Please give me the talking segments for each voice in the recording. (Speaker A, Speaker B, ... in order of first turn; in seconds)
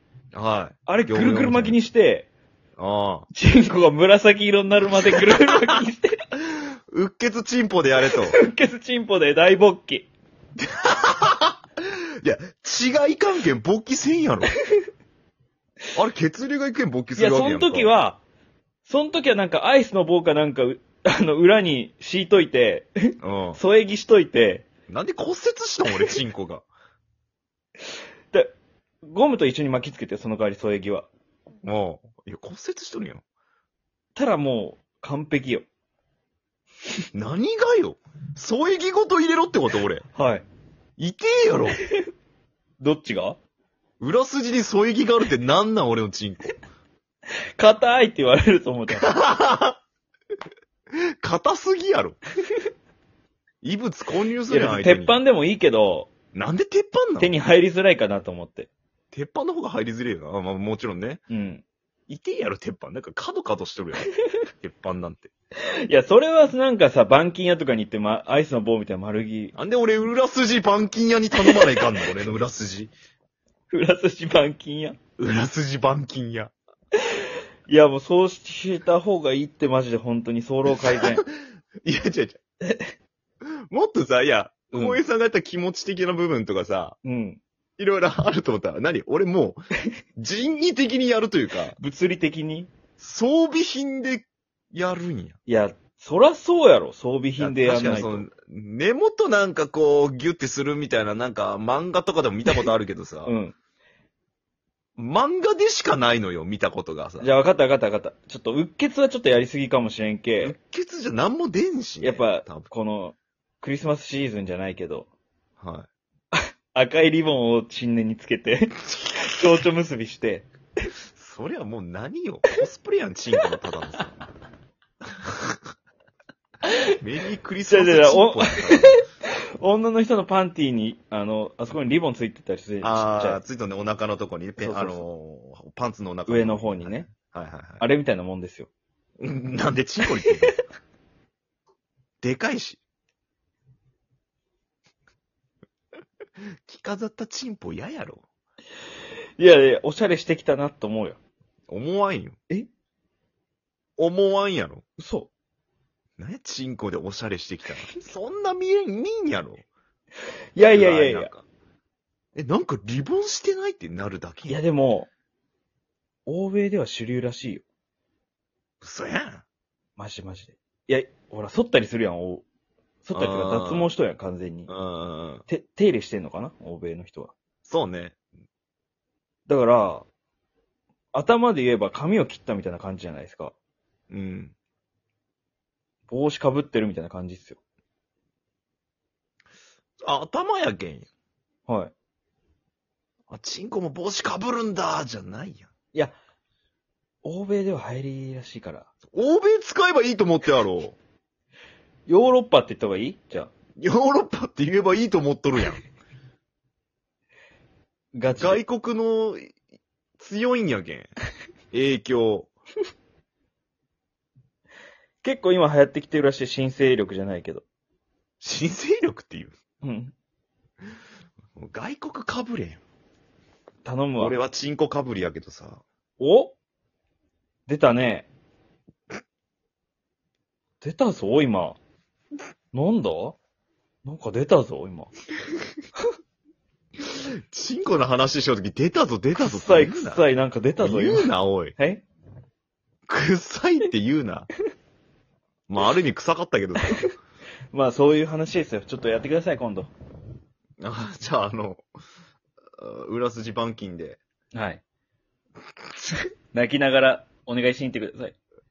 Speaker A: 0.3-1.8, 2.8-3.3, 5.5-5.8, 6.9-8.4, 10.6-14.5, 15.9-17.9, 23.2-23.6, 24.9-26.7, 31.6-33.2, 37.1-40.1, 41.0-41.8, 44.0-46.6, 49.0-49.8, 50.9-52.2, 53.6-55.2, 56.3-57.3, 59.1-61.2, 62.1-64.1, 64.6-65.3, 69.5-72.9, 75.2-76.5, 80.9-81.3, 81.8-82.4, 83.7-87.0, 87.8-91.8, 93.0-95.4, 97.4-103.3, 105.0-107.3, 110.4-112.7, 115.6-115.9, 121.2-124.1, 125.2-125.6, 127.0-129.0, 132.8-137.9, 139.2-140.6, 142.2-142.8, 146.7-148.2, 151.7-152.4, 154.0-154.8, 156.2-159.7, 160.7-161.4, 162.3-164.6, 168.8-169.4, 173.1-173.9, 174.7-175.4, 177.7-178.2, 184.1-184.5, 190.0-191.1, 193.3-195.7, 199.1-201.0, 203.8-205.8, 208.4-209.6, 210.2-211.1, 211.7-212.5, 218.4-219.6, 221.6-222.8, 224.2-225.8, 237.0-240.2, 240.8-241.8, 243.1-244.5, 245.7-247.0, 250.8-251.8, 252.8-254.2
Speaker B: 0.9-2.3, 3.3-6.2, 8.1-10.1, 17.2-18.2, 18.9-24.7, 29.1-31.1, 34.1-35.7, 40.1-40.5, 42.8-43.4, 47.6-49.1, 54.5-56.1, 57.2-58.7, 61.3-61.6, 65.8-69.5, 71.4-71.8, 73.7-75.0, 77.7-81.2, 82.7-82.9, 84.7-85.0, 87.0-87.4, 91.8-92.7, 95.5-98.3, 103.2-103.5, 107.2-110.5, 112.0-115.1, 116.7-120.5, 127.7-129.0, 129.6-133.4, 134.6-135.0, 136.3-137.1, 137.8-138.7, 149.4-151.2, 155.0-155.3, 160.6-161.3, 164.5-165.1, 166.3-167.7, 170.0-172.4, 173.0-174.7, 175.5-177.3, 179.5-180.1, 181.1-183.6, 186.1-187.6, 191.7-191.9, 197.2-198.9, 202.1-203.5, 208.2-208.6, 215.2-217.6, 219.8-220.1, 223.8-224.4, 226.2-226.5, 227.7-228.3, 230.8-231.8, 232.7-233.4, 234.0-235.1, 239.4-242.0, 247.7-249.9, 254.5-254.8, 256.1-258.4